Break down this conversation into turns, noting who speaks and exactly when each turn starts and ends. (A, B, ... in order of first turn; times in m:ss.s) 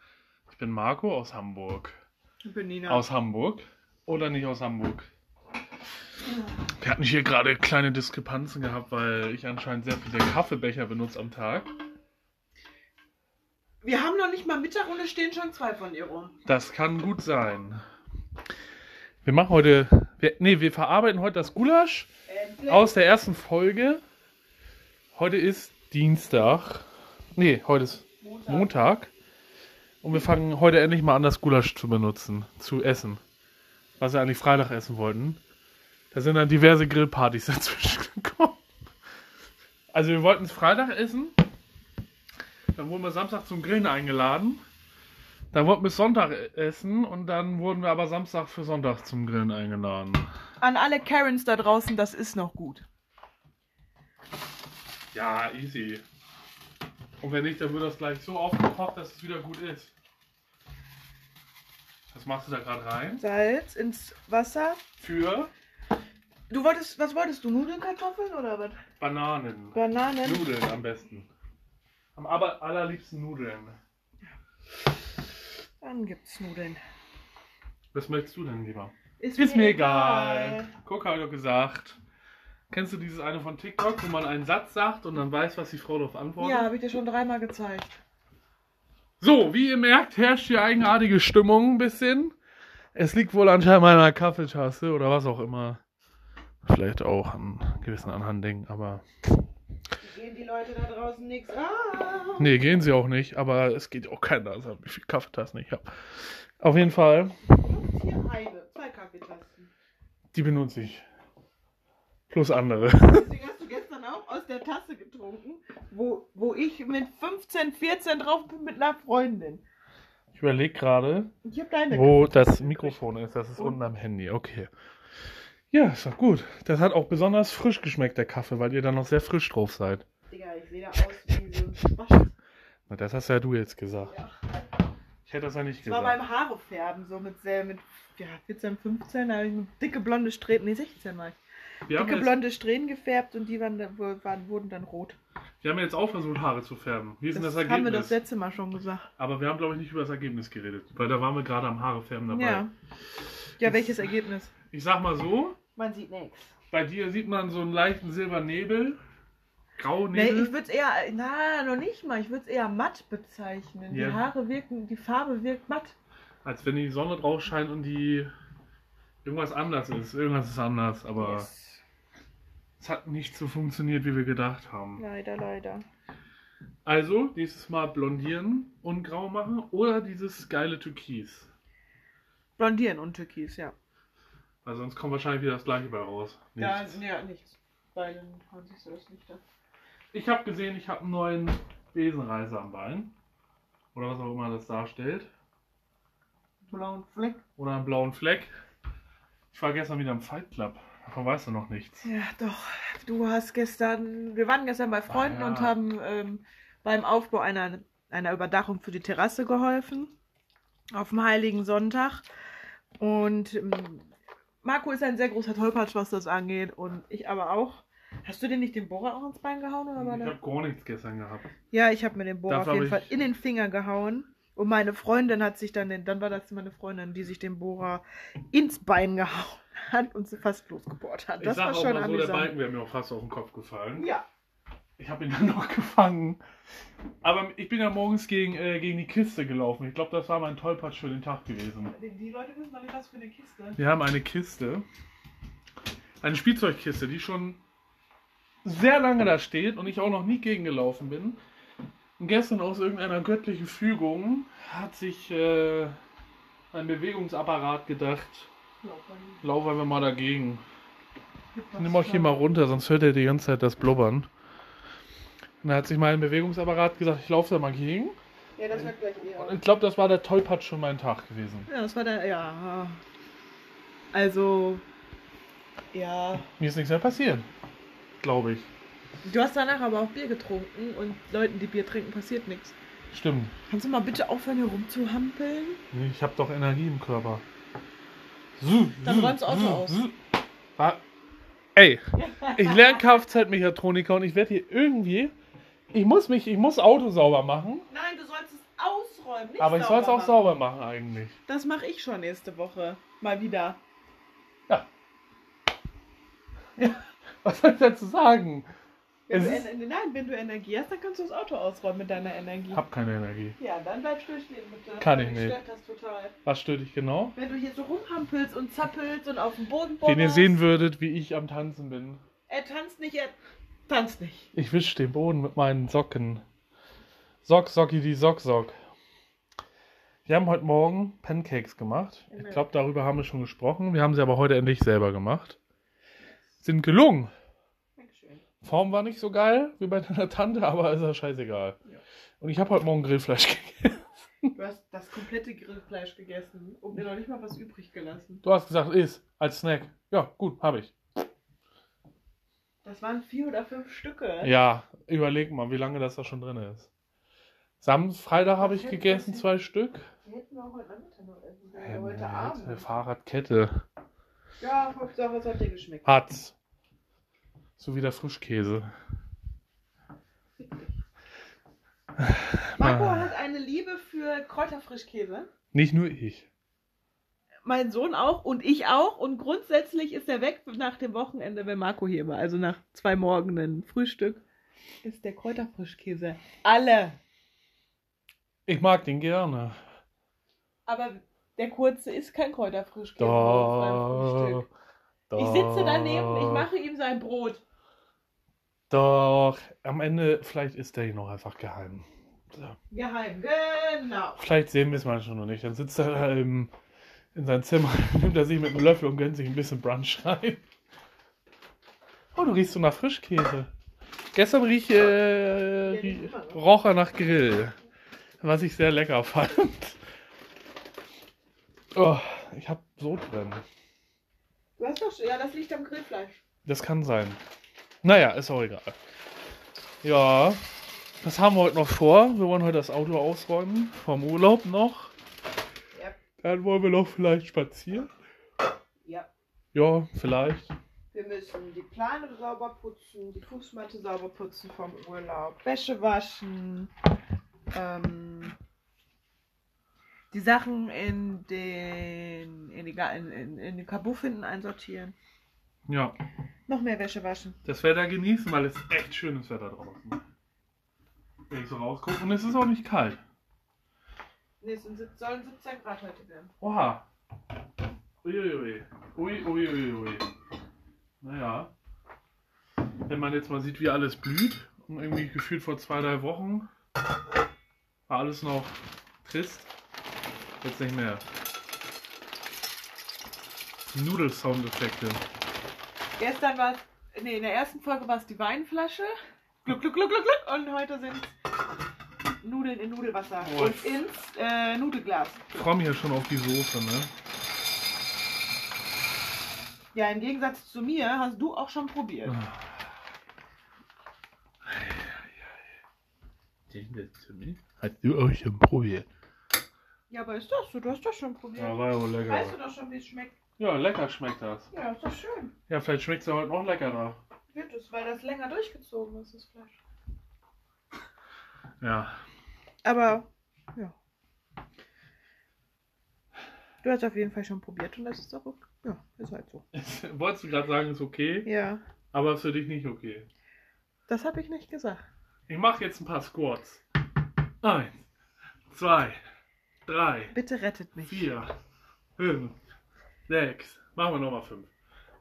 0:00.5-0:02.0 A
0:02.4-0:03.0 B
0:02.9-0:05.1 A
0:06.8-0:11.7 A
0:13.8-0:16.4 B
0:16.5-0:17.8 A
0:19.2-0:22.1 A
0:22.3-0:23.0 B
0:22.7-0:24.0 A
0:25.1-0:29.1 A
0:28.2-0:28.7 B
0:30.0-0:33.2 A
0:34.0-0:35.4 A
0:36.1-0:38.6 A
0:39.9-0:41.4 A
0:42.7-0:44.6 A
0:45.5-0:50.3 A
0:50.6-0:52.9 B
0:55.1-0:56.0 A
0:57.2-0:59.9 A
1:02.1-1:03.2 A
1:03.2-1:04.8 B
1:05.0-1:05.5 A
1:06.5-1:08.8 B
1:09.0-1:11.3 A
1:09.8-1:10.4 B
1:12.2-1:13.8 A
1:15.8-1:16.8 B
1:17.9-1:22.0 A
1:19.2-1:20.7 B
1:22.7-1:26.7 A
1:26.4-1:28.0 B
1:29.2-1:32.4 A
1:33.0-1:35.8 A
1:36.6-1:39.0 A
1:40.0-1:42.6 B
1:42.4-1:47.4 A
1:47.5-1:49.7 B
1:50.3-1:51.0 A
1:52.3-1:53.3 A
1:53.1-1:59.6 B
2:00.3-2:01.3 A
2:01.4-2:03.0 B
2:01.9-2:04.7 A
2:05.7-2:10.0 A
2:10.3-2:12.4 B
2:12.9-2:14.1 A
2:14.0-2:14.4 B
2:15.2-2:16.2 A
2:15.8-2:21.4 B
2:21.9-2:22.4 A
2:21.9-2:25.2 B
2:25.6-2:28.2 A
2:27.3-2:29.1 B
2:29.2-2:32.6 A
2:32.3-2:32.7 B
2:33.6-2:34.5 B
2:33.6-2:34.1 A
2:34.7-2:35.6 A
2:35.8-2:36.5 B
2:36.7-2:39.0 A
2:39.8-2:40.5 A
2:40.1-2:46.0 B
2:43.9-2:44.2 A
2:46.4-2:48.3 A
2:49.2-2:51.5 A
2:51.2-2:51.8 B
2:52.8-2:55.0 A
2:55.0-2:55.8 B
2:56.8-3:01.5 A
3:02.6-3:03.7 B
3:04.6-3:07.0 A
3:06.6-3:09.4 B
3:10.1-3:13.1 A
3:13.9-3:15.3 A
3:16.7-3:17.4 B
3:17.6-3:18.5 A
3:19.5-3:22.1 A
3:22.0-3:30.1 B
3:25.1-3:25.8 A
3:30.9-3:32.2 B
3:33.0-3:34.1 B
3:34.6-3:40.4 B
3:40.0-3:41.5 A
3:41.7-3:52.5 B
3:42.5-3:43.1 A
3:51.4-3:54.1 A
3:54.0-3:54.2 B
3:55.0-3:56.4 A
3:57.2-4:01.9 A
4:01.9-4:03.8 B
4:03.8-4:04.9 A
4:06.2-4:07.6 A
4:08.6-4:11.4 A
4:12.2-4:16.0 A
4:16.7-4:18.5 A
4:18.8-4:19.4 B
4:19.4-4:20.6 A
4:21.5-4:22.4 B
4:21.8-4:24.3 A
4:25.6-4:28.2 A
4:28.6-4:29.6 B
4:28.8-4:31.7 A
4:31.7-4:33.0 B
4:34.1-4:34.8 B
4:35.9-4:36.5 B
4:36.6-4:37.5 A
4:38.2-4:38.7 A
4:39.2-4:42.8 B
4:43.1-4:43.6 A
4:43.7-4:45.8 B
4:45.9-4:47.4 A
4:48.6-4:50.2 A
4:49.0-4:50.0 B
4:50.8-4:51.0 A
4:51.8-4:55.3 A
4:52.2-4:53.2 B
4:55.9-4:57.9 A
4:57.9-5:00.4 B
4:59.6-5:01.4 A
5:01.5-5:03.8 B
5:06.8-5:08.7 A
5:09.3-5:12.8 B
5:09.3-5:09.7 A
5:12.7-5:13.6 A
5:13.6-5:16.4 B
5:15.0-5:15.6 A
5:16.4-5:17.4 A
5:17.4-5:20.6 B
5:20.0-5:22.2 A
5:22.5-5:23.4 B
5:23.9-5:24.5 B
5:24.5-5:26.4 A
5:27.4-5:28.8 A
5:30.2-5:35.6 A
5:32.3-5:32.7 B
5:36.6-5:37.3 A
5:38.0-5:38.4 B
5:38.6-5:41.8 A
5:42.4-5:44.5 A
5:44.6-5:48.4 B
5:48.4-5:50.9 A
5:52.8-5:54.5 B
5:54.4-5:56.9 A
5:57.8-6:00.1 A
5:58.6-5:59.5 B
6:00.2-6:02.9 B
6:01.8-6:03.8 A
6:04.6-6:06.0 B
6:06.0-6:06.6 A
6:07.8-6:08.9 A
6:10.6-6:11.0 B
6:12.2-6:13.3 A
6:12.8-6:15.5 B
6:15.7-6:16.5 A
6:17.6-6:24.4 B
6:25.0-6:27.2 B
6:28.7-6:29.8 A
6:30.9-6:34.7 B
6:33.2-6:34.7 A
6:35.3-6:36.7 A
6:35.3-6:37.6 B
6:38.9-6:42.8 A
6:42.9-6:44.4 B
6:44.4-6:46.7 A
6:47.3-6:50.6 A
6:52.3-6:53.7 A
6:54.3-6:57.8 A
6:55.8-6:56.6 B
6:58.4-7:00.0 A
7:01.9-7:03.6 A
7:04.8-7:06.4 B
7:06.6-7:07.4 A
7:08.0-7:09.0 A
7:10.0-7:10.6 A
7:11.2-7:15.1 A
7:15.9-7:16.2 B
7:16.4-7:18.1 A
7:19.0-7:19.3 B
7:19.7-7:20.7 A
7:21.1-7:26.9 B
7:27.7-7:28.6 B
7:30.3-7:35.2 B
7:35.9-7:36.2 A
7:36.7-7:37.6 B
7:37.6-7:40.2 A
7:41.5-7:43.2 A
7:44.6-7:46.5 B
7:46.6-7:47.0 A
7:48.2-7:50.3 A
7:51.2-7:51.7 A
7:53.1-7:56.7 A
7:58.1-7:59.7 A
8:00.6-8:01.2 A
8:03.9-8:05.2 A
8:06.2-8:11.3 B
8:12.4-8:15.4 B
8:13.4-8:14.1 A
8:15.5-8:17.1 A
8:19.9-8:22.4 B
8:22.2-8:22.8 A
8:24.6-8:25.6 A
8:26.7-8:29.1 A
8:30.1-8:33.4 B
8:31.6-8:32.6 A
8:33.6-8:34.7 A
8:34.7-8:35.6 B
8:35.7-8:37.2 A
8:37.5-8:39.8 B
8:41.8-8:42.2 A
8:42.8-8:44.0 B
8:46.8-8:49.6 B
8:49.7-8:51.5 A
8:51.4-8:51.8 B
8:52.1-8:53.3 A
8:54.1-8:55.0 B
8:55.5-8:56.8 A
8:57.6-8:58.0 A
8:58.7-8:59.2 A
8:59.9-9:00.4 A
9:00.3-9:01.3 B
9:01.1-9:01.5 A
9:02.2-9:02.6 A
9:03.3-9:04.7 A